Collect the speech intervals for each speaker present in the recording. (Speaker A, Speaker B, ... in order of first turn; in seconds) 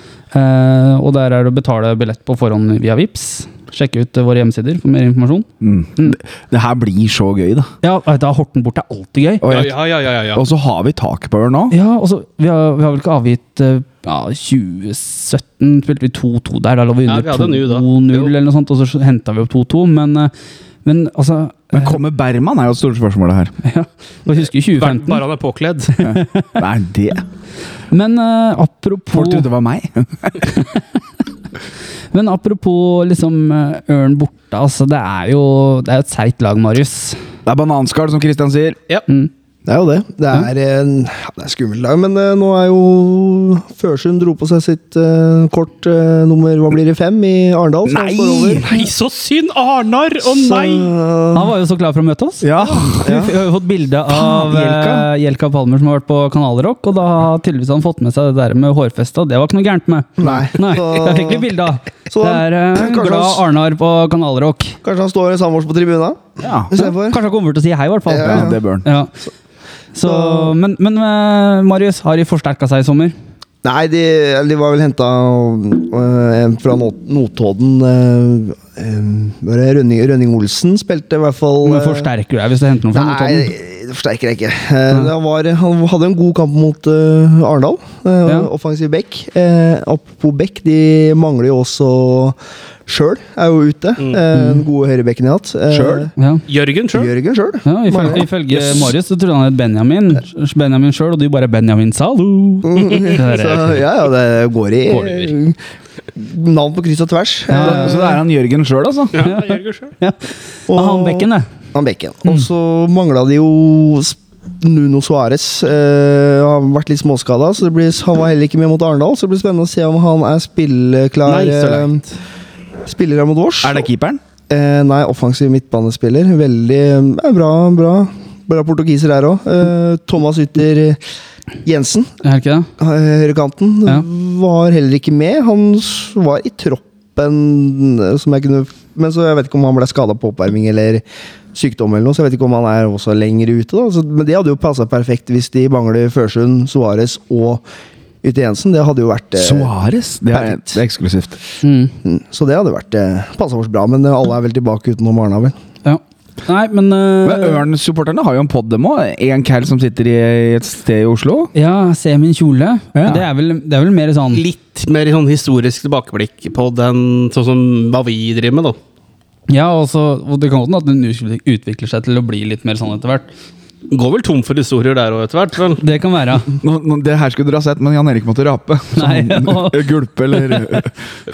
Speaker A: 0.3-6.2, 7.8-9.5, 11.7-20.3, 20.8-21.9, 23.6-25.2, 26.0-26.6, 27.9-29.5, 30.5-30.8, 32.1-37.2, 51.3-64.8, 66.7-69.1, 69.9-73.1, 81.6-83.5, 94.3-94.6, 96.2-96.4, 97.6-103.8, 107.5-108.2, 109.2-111.5, 132.2-132.7, 151.6-151.9, 155.8-157.6, 161.5-164.4, 169.5-173.3, 175.8-176.5, 178.9-180.8
Speaker B: 5.6-7.7, 9.4-9.8, 10.3-11.8, 21.7-23.5, 26.0-27.2, 29.1-30.5, 37.5-38.8, 47.8-48.6, 52.4-53.3, 54.1-55.1, 66.4-66.7, 68.2-68.9, 95.7-96.1, 107.5-109.3, 123.6-124.2, 149.4-151.4, 157.2-161.5, 162.9-163.2, 176.6-181.0
Speaker C: 9.4-10.4, 17.1-18.3, 24.8-26.0, 48.6-50.9, 96.5-97.1, 109.1-109.9, 121.2-122.1, 164.3-168.8, 173.9-175.8
Speaker D: 39.7-48.8, 50.2-51.5, 52.8-53.3, 60.2-61.5, 62.1-63.4, 64.8-67.2, 68.1-68.6, 70.0-70.5, 73.6-82.1, 82.9-96.1, 96.9-98.8, 102.6-105.6, 106.1-108.2, 110.7-122.0, 122.8-123.9, 124.5-131.0, 131.6-132.1, 132.8-141.0, 141.5-147.6, 148.2-149.7, 150.3-150.8, 152.0-155.5